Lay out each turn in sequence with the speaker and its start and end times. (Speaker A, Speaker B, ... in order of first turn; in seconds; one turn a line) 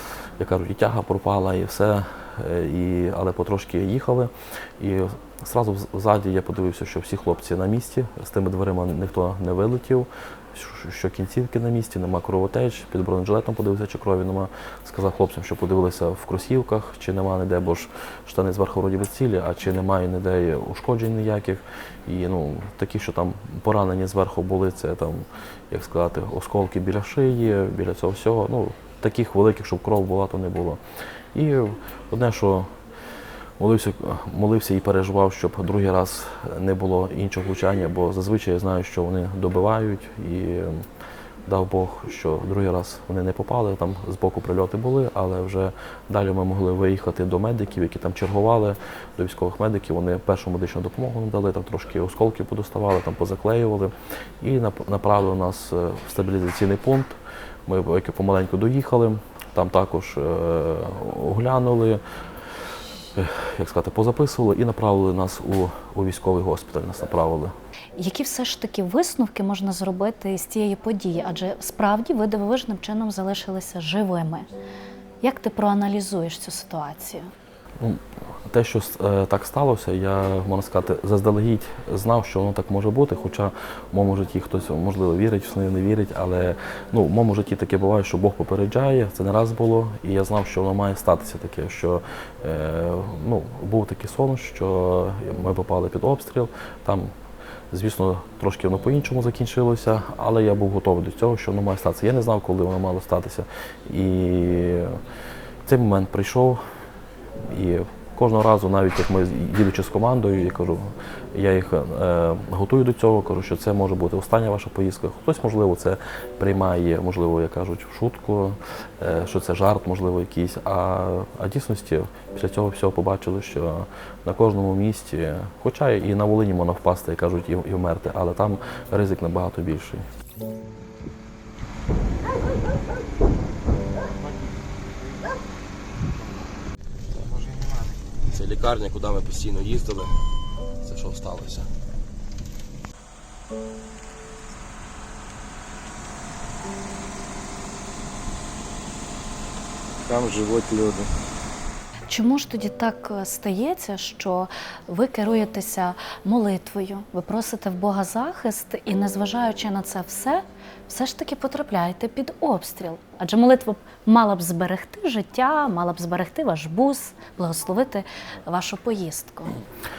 Speaker A: 0.4-30.8
Speaker A: 31.3-32.7
Speaker A: 33.6-40.9
Speaker A: 41.5-62.0
Speaker A: 63.1-67.5
Speaker B: 68.0-74.5
Speaker B: 75.2-77.3
Speaker A: 77.8-97.1
Speaker A: 97.7-105.0
Speaker A: 105.7-106.6
Speaker A: 107.5-130.0
Speaker C: 134.1-135.3
Speaker C: 136.2-136.4
Speaker C: 137.2-138.2
Speaker D: 138.2-140.2
Speaker D: 140.8-141.7
Speaker C: 150.1-151.1
Speaker B: 152.1-169.6